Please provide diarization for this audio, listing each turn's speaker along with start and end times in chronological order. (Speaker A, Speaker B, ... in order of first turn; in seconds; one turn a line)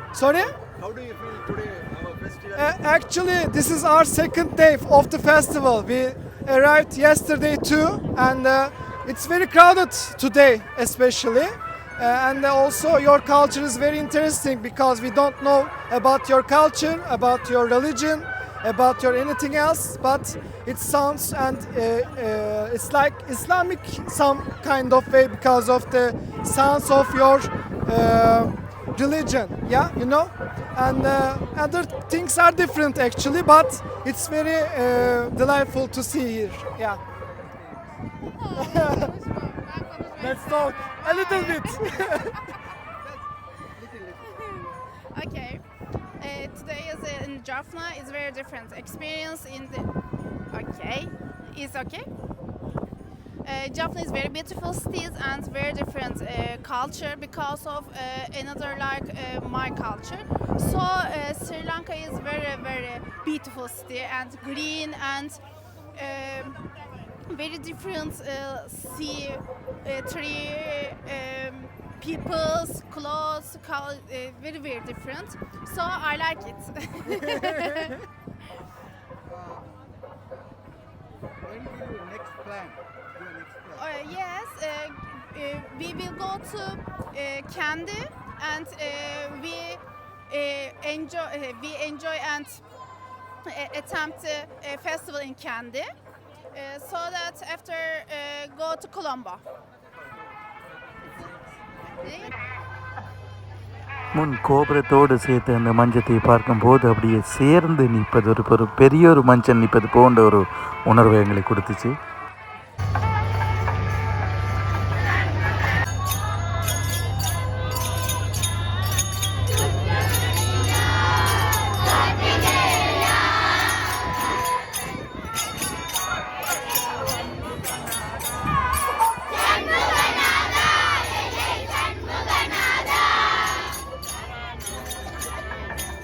Speaker A: 0.1-0.5
Speaker B: 0.8-2.6
Speaker A: 2.6-37.0
Speaker C: 38.4-41.8
Speaker A: 38.6-39.1
Speaker A: 40.2-42.4
Speaker B: 43.8-44.3
Speaker C: 44.4-45.6
Speaker C: 46.2-49.9
Speaker C: 50.5-52.0
Speaker C: 53.4-65.4
Speaker C: 65.9-66.6
Speaker C: 67.3-78.0
Speaker B: 79.3-79.7
Speaker B: 81.4-83.8
Speaker C: 83.8-92.6
Speaker C: 93.5-95.9
Speaker C: 96.5-99.4
Speaker C: 101.9-102.3
Speaker D: 104.2-111.9